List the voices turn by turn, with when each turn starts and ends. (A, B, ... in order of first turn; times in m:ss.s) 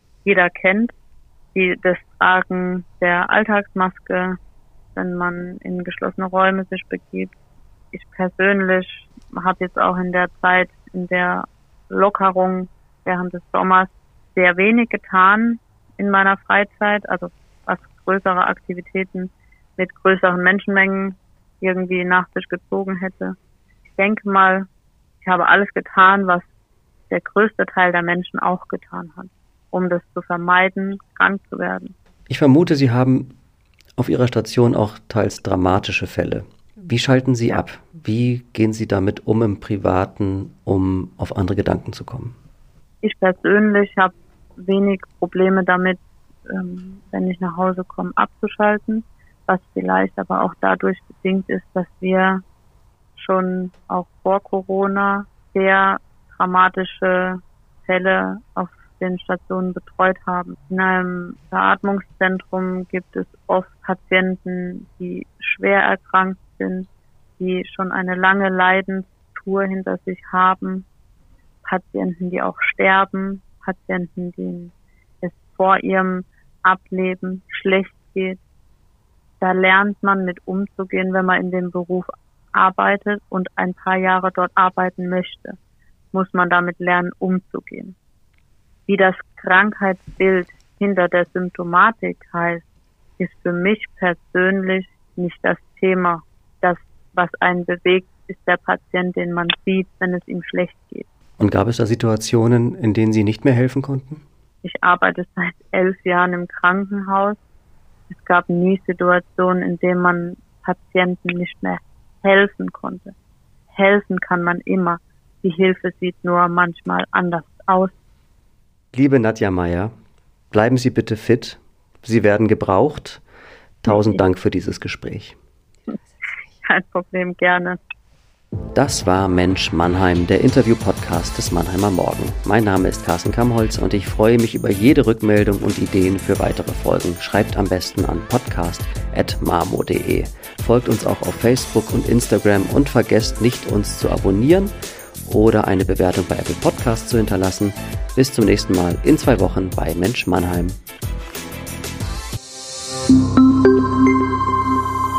0:00.2-0:00.9 A
0:01.5-0:04.4 A
0:05.0-0:07.3 A
0:07.9-0:23.4 A
0:24.0-0:24.7 A
0:25.2-0:26.5 A
0:27.1-0:31.9 A
0:32.3-0:33.3 B
0:34.0-0:42.4 B
0:43.0-0:52.4 A
0:53.2-1:06.9 A
1:07.4-1:10.9 A
1:11.6-1:18.4 A
1:19.4-1:25.6 A
1:26.1-1:28.0 A
1:28.9-1:32.6 A
1:33.2-1:41.1 A
1:41.4-1:44.2 B
1:44.6-1:47.4 A
1:48.1-1:53.1 A
1:53.7-1:58.0 A
1:58.9-1:59.9 B
2:00.5-2:03.2 B
2:03.8-2:05.4 B
2:03.9-2:04.2 A
2:06.6-2:07.8 A
2:08.7-2:24.7 B
2:25.3-2:30.8 B